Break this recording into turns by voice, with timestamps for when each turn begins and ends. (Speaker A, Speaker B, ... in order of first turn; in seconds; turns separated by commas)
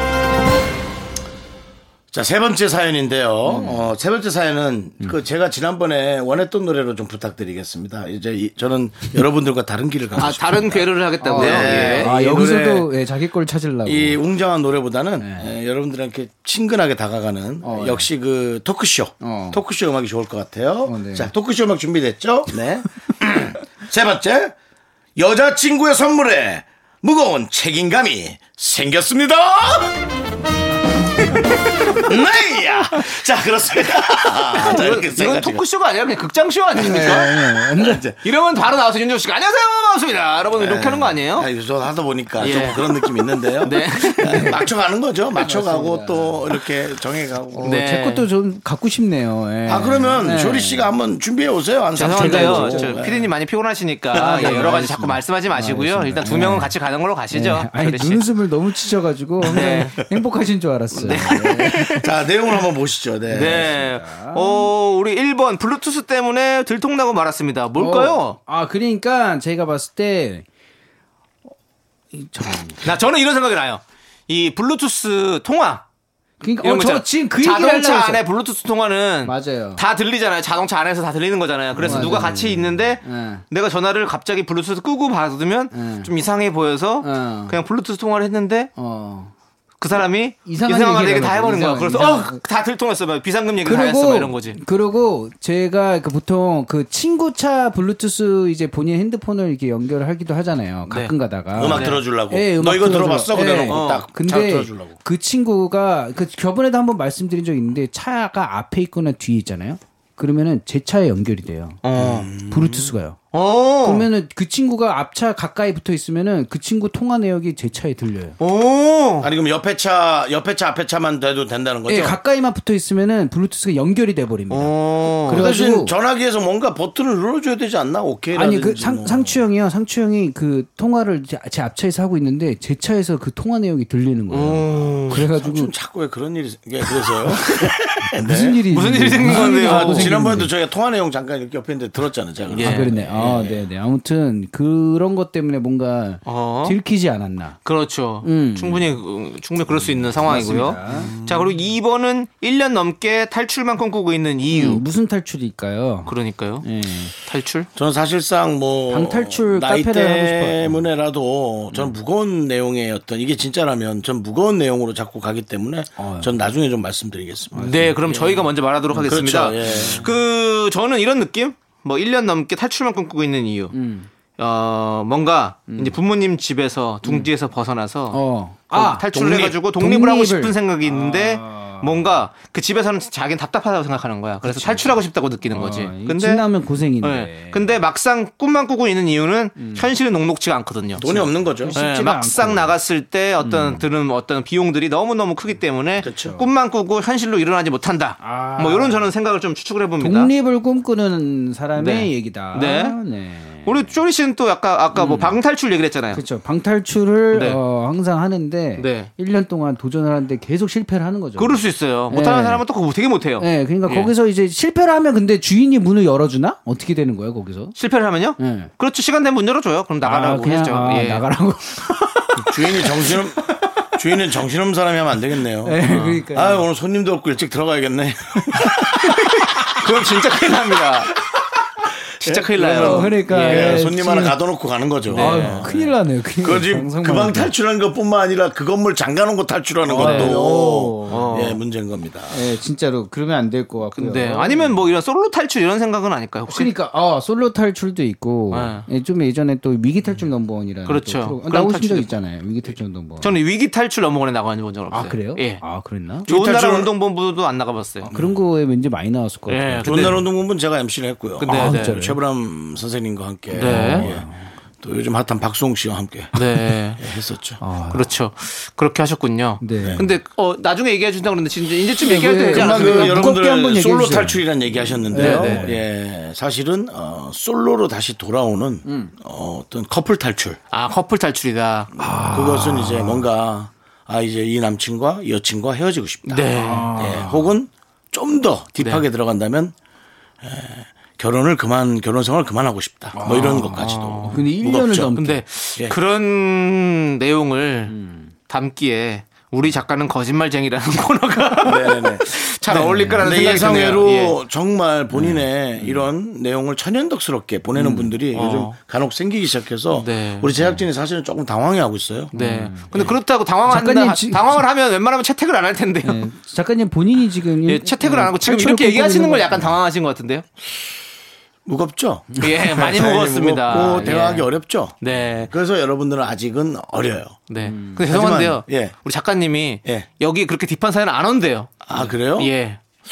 Speaker A: 2.1-12.9, Speaker B: 3.5-3.9, Speaker C: 10.2-12.1, Speaker B: 11.2-14.2, Speaker A: 13.8-24.6, Speaker B: 15.2-15.5, Speaker B: 17.6-18.1, Speaker B: 19.2-19.6, Speaker B: 20.9-21.3, Speaker A: 25.2-29.9, Speaker A: 32.0-35.6, Speaker C: 34.5-37.3, Speaker B: 36.8-38.0, Speaker A: 36.9-38.2, Speaker C: 38.2-41.5, Speaker A: 40.5-47.7, Speaker C: 42.4-42.9, Speaker C: 43.6-44.5, Speaker B: 44.2-44.6, Speaker B: 45.4-46.5, Speaker B: 47.5-50.9, Speaker C: 47.6-48.3, Speaker A: 49.7-53.3, Speaker C: 52.0-58.3, Speaker B: 52.0-53.1, Speaker B: 54.1-56.8, Speaker A: 54.1-54.7, Speaker B: 57.3-62.0, Speaker C: 59.4-60.0, Speaker C: 61.0-62.0, Speaker A: 61.2-63.7, Speaker B: 63.3-64.7, Speaker C: 63.3-68.4, Speaker B: 67.8-70.5, Speaker B: 72.1-72.9, Speaker C: 72.8-75.8, Speaker B: 76.4-78.2, Speaker C: 76.6-88.7, Speaker B: 79.2-79.8, Speaker A: 81.8-82.8, Speaker B: 81.8-83.4, Speaker B: 85.7-86.1, Speaker B: 87.0-87.6, Speaker B: 88.8-89.3, Speaker C: 89.8-94.6, Speaker B: 90.5-92.4, Speaker B: 93.7-113.2, Speaker C: 100.9-101.1, Speaker A: 101.5-105.0, Speaker C: 101.7-102.0, Speaker C: 103.7-104.0, Speaker C: 111.8-112.3, Speaker A: 112.0-112.9, Speaker C: 113.3-114.1, Speaker B: 113.8-118.4, Speaker C: 118.4-119.3, Speaker A: 119.2-122.2, Speaker B: 121.9-125.9, Speaker C: 124.5-125.5, Speaker A: 125.3-129.4, Speaker B: 128.3-135.7, Speaker C: 134.3-135.2, Speaker A: 134.9-138.6, Speaker C: 137.3-138.1, Speaker B: 138.2-140.5, Speaker C: 138.7-140.2, Speaker A: 139.2-143.7, Speaker C: 142.5-142.9, Speaker B: 142.5-147.6, Speaker C: 146.2-146.8, Speaker C: 147.6-154.8, Speaker B: 148.2-149.0, Speaker B: 149.7-151.2, Speaker A: 150.9-151.6, Speaker B: 154.5-157.1, Speaker C: 156.1-156.7, Speaker C: 157.2-157.7, Speaker A: 157.8-167.9, Speaker B: 158.9-160.8, Speaker B: 166.0-166.5, Speaker B: 167.6-170.1, Speaker C: 167.6-173.8, Speaker A: 169.0-170.1, Speaker B: 173.7-174.1, Speaker C: 174.4-186.4, Speaker B: 175.7-176.0, Speaker B: 177.1-177.3, Speaker B: 178.1-182.2, Speaker A: 179.1-179.6, Speaker B: 184.4-187.8, Speaker C: 187.0-191.2, Speaker B: 189.6-189.9, Speaker A: 191.0-191.8, Speaker B: 191.0-192.8, Speaker C: 191.7-200.3, Speaker B: 193.4-193.9, Speaker A: 196.0-196.4, Speaker B: 196.0-196.5, Speaker B: 198.2-199.1, Speaker B: 200.0-203.9, Speaker C: 201.8-203.0, Speaker C: 203.7-206.2, Speaker B: 204.9-205.4, Speaker B: 206.1-212.6, Speaker C: 207.3-207.6, Speaker C: 208.8-209.1, Speaker C: 211.4-214.1, Speaker B: 213.4-217.7, Speaker C: 217.8-221.2, Speaker B: 218.4-218.7, Speaker B: 220.0-223.2, Speaker A: 222.4-229.2, Speaker B: 225.6-226.7, Speaker C: 225.9-226.2, Speaker C: 229.1-231.1, Speaker C: 232.2-233.8, Speaker A: 232.2-242.5, Speaker B: 232.6-234.4, Speaker C: 235.1-235.7, Speaker B: 235.1-237.5, Speaker B: 239.8-241.3, Speaker C: 240.0-240.4, Speaker C: 241.1-241.6, Speaker B: 242.3-244.9, Speaker C: 243.9-246.7, Speaker B: 246.5-253.4, Speaker C: 248.5-248.9, Speaker C: 250.9-252.2, Speaker C: 252.7-255.6, Speaker B: 254.9-256.3, Speaker C: 256.3-258.1, Speaker A: 256.3-256.9, Speaker B: 258.0-260.2, Speaker A: 258.1-258.4, Speaker C: 259.5-260.2, Speaker A: 259.8-264.3, Speaker C: 261.4-261.9, Speaker B: 261.4-262.2, Speaker C: 263.5-264.1, Speaker B: 263.6-264.5, Speaker A: 264.8-266.4, Speaker C: 266.3-267.0, Speaker A: 267.0-267.6, Speaker B: 267.6-268.1, Speaker C: 267.9-273.2, Speaker B: 269.6-270.1, Speaker A: 269.8-270.1, Speaker B: 272.0-274.4, Speaker A: 272.5-280.6, Speaker B: 275.1-275.8, Speaker C: 275.1-275.6, Speaker B: 278.9-279.1, Speaker C: 280.7-281.9, Speaker B: 282.0-283.2, Speaker A: 282.3-289.8, Speaker C: 286.3-287.1, Speaker B: 286.5-287.6, Speaker C: 288.8-289.0, Speaker A: 290.4-295.1, Speaker B: 293.1-295.4, Speaker C: 293.2-294.4, Speaker C: 295.1-297.9, Speaker B: 297.9-298.3, Speaker C: 298.5-304.4, Speaker A: 301.6-312.3, Speaker B: 302.7-303.6, Speaker B: 305.1-306.0, Speaker B: 307.8-308.1, Speaker C: 308.2-308.8, Speaker C: 309.9-310.7, Speaker B: 312.3-313.1, Speaker C: 312.3-316.2, Speaker B: 313.6-314.7, Speaker B: 316.0-319.8, Speaker C: 317.7-320.5, Speaker A: 321.6-327.4, Speaker C: 322.4-324.5, Speaker B: 323.7-324.4, Speaker C: 325.0-325.5, Speaker C: 327.5-332.8, Speaker B: 327.6-328.1, Speaker A: 328.1-329.0, Speaker A: 331.9-332.5